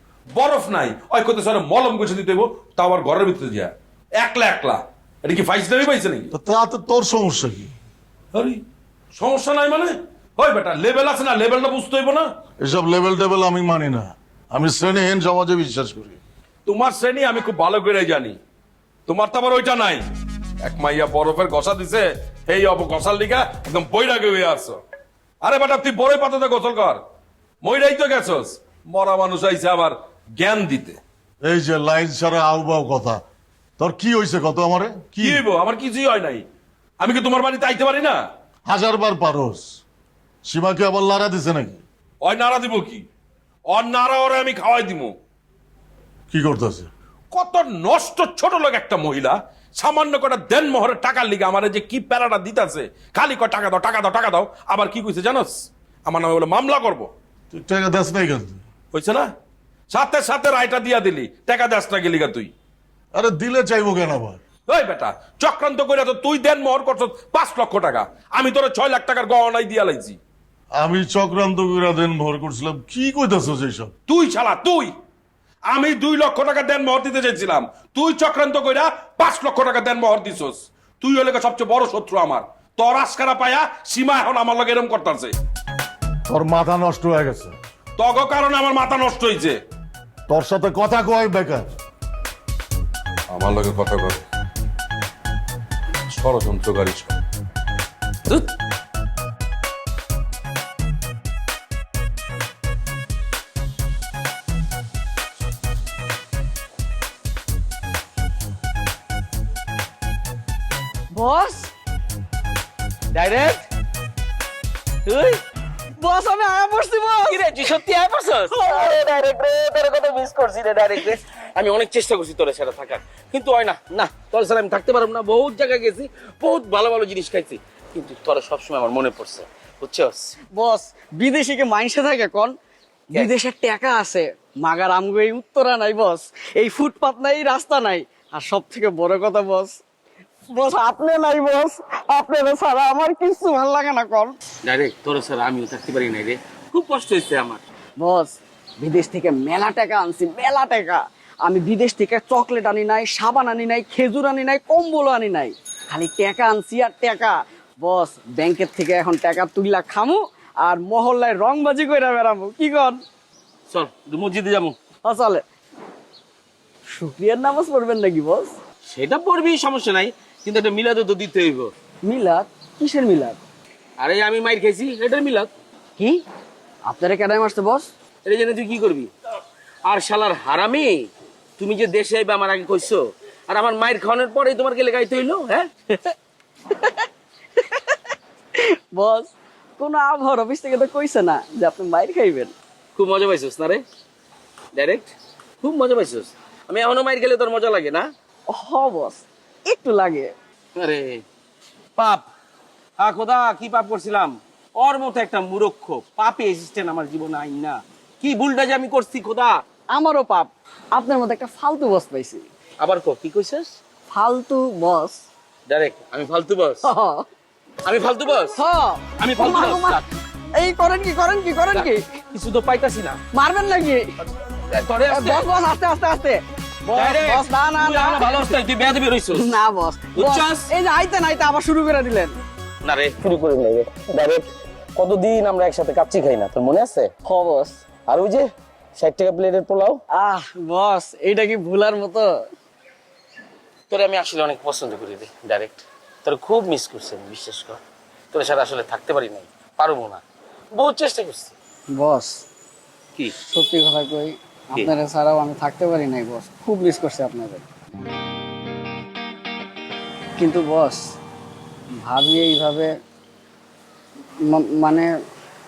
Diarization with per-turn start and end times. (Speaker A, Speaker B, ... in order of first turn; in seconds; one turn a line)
Speaker A: 0.3-6.3
Speaker B: 6.3-7.7
Speaker A: 8.3-8.6
Speaker A: 9.2-12.3
Speaker B: 12.6-16.2
Speaker A: 16.6-18.4
Speaker A: 19.1-20.0
Speaker A: 20.6-24.8
Speaker A: 25.4-27.0
Speaker A: 27.6-31.0
Speaker B: 31.4-33.2
Speaker B: 33.8-35.4
Speaker A: 35.2-36.4
Speaker A: 37.0-38.2
Speaker B: 38.6-39.7
Speaker B: 40.4-41.8
Speaker A: 42.2-43.0
Speaker A: 43.7-45.1
Speaker B: 46.3-46.9
Speaker A: 47.3-57.1
Speaker B: 57.5-58.6
Speaker A: 58.9-59.3
Speaker A: 59.9-62.5
Speaker B: 63.1-64.4
Speaker A: 64.7-70.2
Speaker B: 70.7-73.9
Speaker A: 74.1-74.9
Speaker A: 75.7-85.3
Speaker B: 86.3-87.5
Speaker A: 88.0-89.5
Speaker B: 90.3-91.7
Speaker A: 93.3-94.2
Speaker A: 96.1-97.2
Speaker C: 111.1-111.7
Speaker D: 113.1-113.6
Speaker C: 115.1-115.3
Speaker C: 116.0-117.8
Speaker D: 117.3-130.3
Speaker C: 118.5-119.2
Speaker C: 130.5-132.5
Speaker C: 133.1-139.8
Speaker C: 140.5-144.4
Speaker D: 144.6-147.6
Speaker C: 148.0-163.0
Speaker D: 163.7-164.8
Speaker C: 165.0-165.4
Speaker C: 166.9-168.5
Speaker D: 168.9-171.7
Speaker C: 172.0-173.4
Speaker D: 174.0-175.5
Speaker C: 176.8-177.9
Speaker D: 178.2-179.1
Speaker D: 179.8-185.7
Speaker C: 188.6-192.5
Speaker D: 192.9-193.8
Speaker D: 194.7-198.1
Speaker C: 198.5-200.3
Speaker D: 200.8-201.2
Speaker D: 202.0-202.2
Speaker D: 203.0-209.6
Speaker C: 209.9-212.4
Speaker D: 212.8-213.7
Speaker C: 214.1-215.2
Speaker D: 215.7-216.9
Speaker C: 216.8-217.2
Speaker D: 217.8-218.6
Speaker C: 218.5-220.0
Speaker D: 219.2-220.0
Speaker C: 220.5-222.0
Speaker D: 221.7-223.2
Speaker C: 223.3-224.1
Speaker D: 224.7-225.5
Speaker C: 224.9-228.6
Speaker D: 226.9-229.6
Speaker C: 229.3-232.4
Speaker D: 230.1-230.7
Speaker D: 232.8-237.1
Speaker C: 237.2-237.8
Speaker D: 238.1-240.0
Speaker C: 240.1-242.4
Speaker D: 243.9-247.8
Speaker D: 248.3-250.2
Speaker D: 250.7-251.5
Speaker C: 251.9-252.4
Speaker C: 253.5-257.6
Speaker C: 260.4-261.1
Speaker C: 262.0-262.9
Speaker C: 264.4-265.1